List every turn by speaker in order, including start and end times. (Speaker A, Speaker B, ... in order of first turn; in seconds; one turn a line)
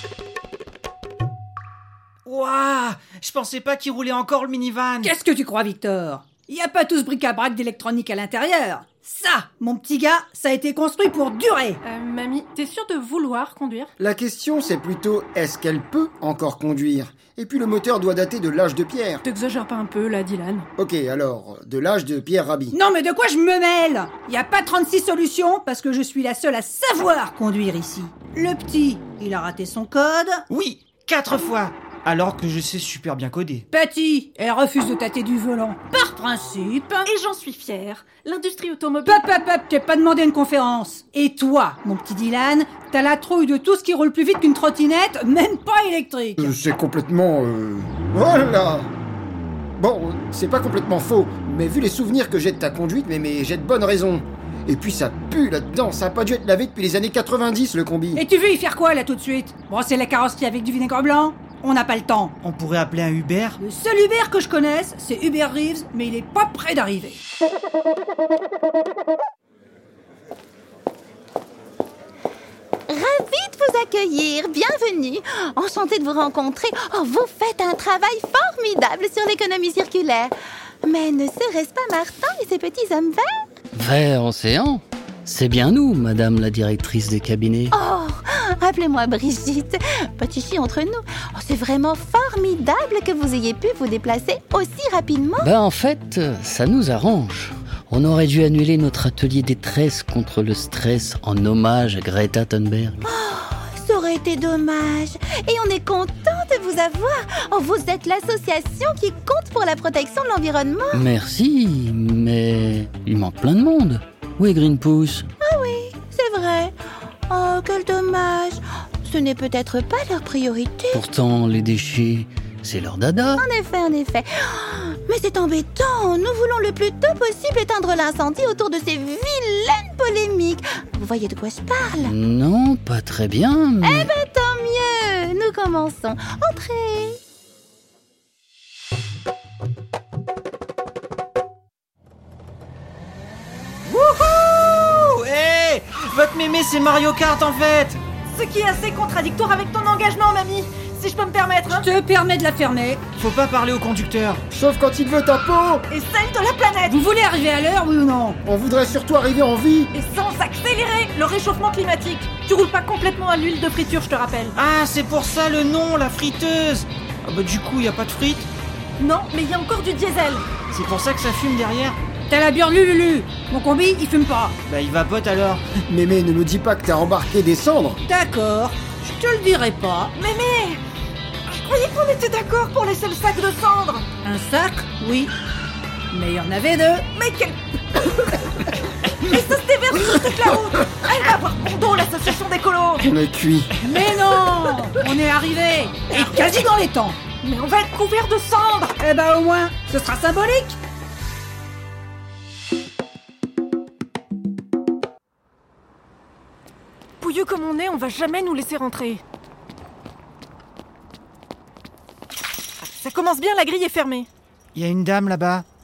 Speaker A: 2.2-5.1
Speaker B: 5.0-11.8
Speaker C: 11.8-13.9
Speaker D: 14.0-19.2
Speaker C: 19.2-20.7
Speaker D: 20.8-22.8
Speaker B: 22.7-30.4
Speaker A: 30.5-33.6
Speaker B: 33.7-37.1
Speaker C: 37.0-39.2
Speaker B: 39.0-46.5
Speaker D: 46.4-48.9
Speaker D: 49.8-58.2
Speaker B: 58.1-62.3
Speaker A: 62.4-63.6
Speaker B: 63.6-67.2
Speaker E: 72.9-80.3
Speaker E: 80.8-83.4
Speaker F: 83.7-87.7
Speaker E: 87.7-95.5
Speaker F: 95.4-103.0
Speaker E: 103.0-111.0
Speaker F: 110.9-115.3
Speaker E: 115.4-116.8
Speaker E: 117.3-121.0
Speaker F: 120.9-123.4
Speaker E: 123.3-132.1
Speaker F: 132.0-134.1
Speaker E: 133.8-137.2
Speaker A: 143.8-148.0
Speaker C: 148.3-151.9
Speaker B: 151.7-153.0
Speaker A: 153.2-154.4
Speaker D: 154.5-155.9
Speaker C: 155.9-157.0
Speaker B: 156.9-158.4
Speaker D: 158.4-159.9
Speaker C: 159.9-164.6
Speaker A: 164.6-168.5
Speaker C: 169.0-170.5
Speaker A: 170.7-172.0
Speaker B: 172.3-174.6
Speaker A: 174.7-175.6
Speaker D: 175.9-178.0
Speaker B: 178.0-180.1
Speaker C: 180.1-180.8
Speaker C: 181.5-184.1
Speaker B: 184.2-185.3
Speaker B: 186.1-187.1
Speaker C: 187.1-188.4
Speaker C: 189.2-193.1
Speaker D: 193.0-193.7
Speaker B: 193.8-197.2
Speaker C: 197.4-199.0
Speaker B: 199.0-200.8
Speaker C: 207.2-209.2
Speaker C: 212.8-214.3
Speaker A: 214.7-215.6